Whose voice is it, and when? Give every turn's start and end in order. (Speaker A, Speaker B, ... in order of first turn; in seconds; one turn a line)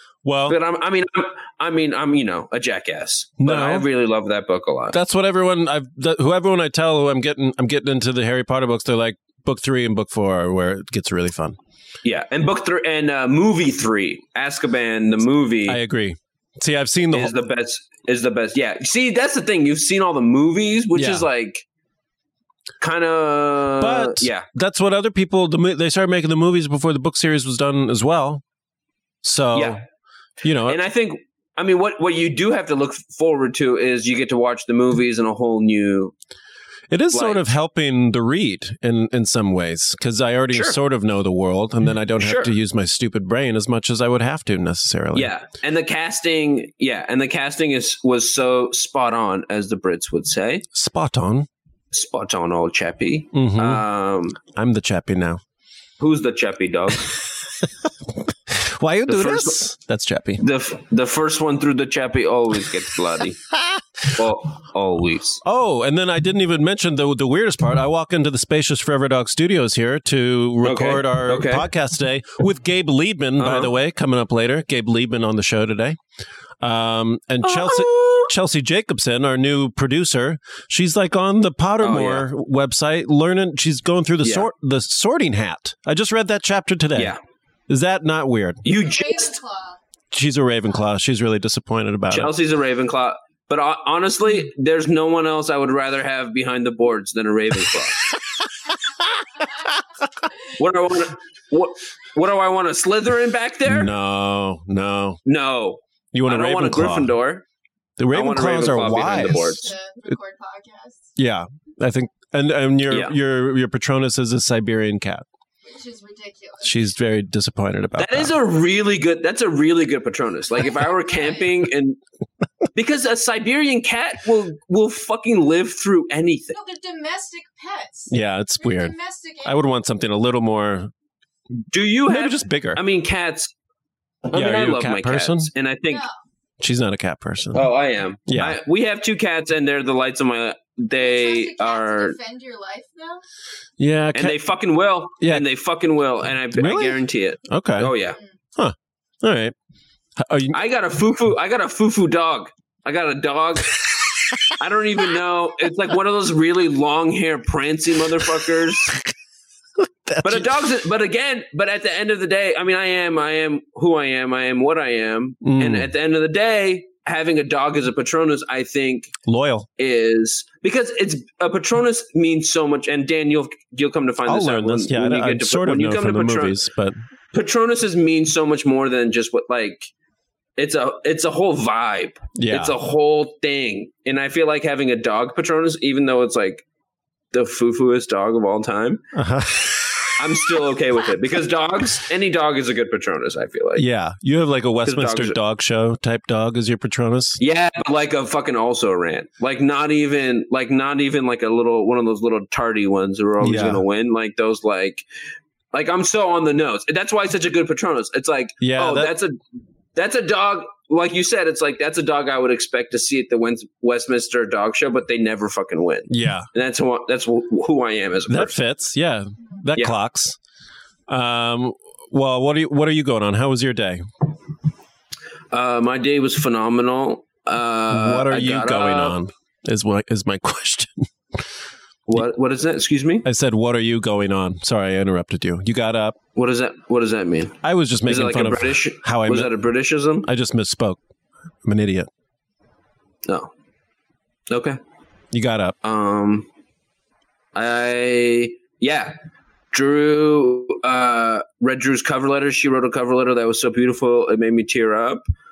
Speaker A: 0.2-0.6
Speaker B: 0.5-5.0
Speaker A: 3.4-3.9
Speaker A: 4.9-11.6
Speaker B: 12.0-15.8
Speaker A: 15.7-17.4
Speaker B: 17.1-21.6
Speaker A: 20.9-21.2
Speaker B: 22.8-24.4
Speaker A: 23.8-28.4
Speaker A: 29.2-29.8
Speaker B: 29.5-29.8
Speaker A: 30.4-30.8
Speaker B: 30.7-36.1
Speaker A: 36.9-45.3
Speaker B: 37.1-37.4
Speaker B: 40.5-40.8
Speaker B: 42.2-42.5
Speaker B: 45.1-50.7
Speaker A: 50.7-51.5
Speaker B: 51.9-54.4
Speaker A: 53.3-53.8
Speaker A: 54.5-55.4
Speaker B: 56.0-57.1
Speaker A: 58.1-60.4
Speaker B: 59.1-59.6
Speaker B: 60.4-63.4
Speaker A: 63.6-63.8
Speaker B: 64.1-65.4
Speaker A: 65.4-76.0
Speaker B: 70.6-71.7
Speaker B: 73.4-73.7
Speaker A: 76.6-87.1
Speaker B: 77.5-78.3
Speaker B: 81.8-82.3
Speaker B: 84.2-84.5
Speaker A: 87.7-88.6
Speaker B: 88.6-89.4
Speaker C: 88.7-89.8
Speaker A: 90.1-92.3
Speaker B: 92.1-98.0
Speaker B: 100.6-103.9
Speaker A: 103.7-105.2
Speaker B: 105.2-107.4
Speaker A: 106.1-107.1
Speaker A: 108.0-109.7
Speaker B: 108.1-109.7
Speaker C: 109.2-111.1
Speaker A: 111.2-115.2
Speaker B: 112.9-113.2
Speaker C: 115.7-116.8
Speaker A: 116.6-118.3
Speaker B: 118.0-122.0
Speaker C: 120.6-121.5
Speaker B: 122.7-126.6
Speaker C: 126.5-129.7
Speaker A: 128.1-130.9
Speaker B: 131.7-133.5
Speaker A: 132.1-132.8
Speaker B: 134.3-136.1
Speaker A: 134.3-135.5
Speaker C: 135.9-136.1
Speaker A: 136.6-137.6
Speaker B: 137.5-142.2
Speaker A: 138.3-138.6
Speaker C: 140.9-143.2
Speaker A: 143.8-144.4
Speaker B: 144.1-148.2
Speaker A: 145.2-145.4
Speaker A: 146.5-147.9
Speaker A: 148.6-149.5
Speaker A: 150.2-150.6
Speaker B: 150.5-153.9
Speaker B: 154.5-159.0
Speaker A: 159.8-160.6
Speaker B: 160.2-169.2
Speaker A: 165.4-165.9
Speaker A: 169.2-169.7
Speaker B: 169.8-176.6
Speaker A: 174.2-177.0
Speaker B: 177.3-179.9
Speaker B: 180.6-186.6
Speaker A: 182.3-182.7
Speaker B: 187.3-189.0
Speaker A: 189.1-190.3
Speaker B: 190.2-193.8
Speaker A: 193.8-197.4
Speaker B: 194.8-195.4
Speaker B: 197.4-205.0
Speaker A: 203.4-203.8
Speaker B: 205.7-209.4
Speaker A: 208.6-209.1
Speaker B: 209.9-218.5
Speaker A: 216.1-216.5
Speaker A: 218.3-220.4
Speaker A: 221.1-224.0
Speaker B: 225.5-229.2
Speaker A: 227.9-231.4
Speaker B: 232.1-233.2
Speaker A: 233.2-236.2
Speaker B: 236.3-240.3
Speaker A: 237.6-239.5
Speaker A: 240.2-241.0
Speaker A: 241.6-242.1
Speaker B: 244.5-244.8
Speaker A: 245.3-245.8
Speaker B: 245.8-246.4
Speaker B: 247.5-249.1
Speaker B: 249.7-255.2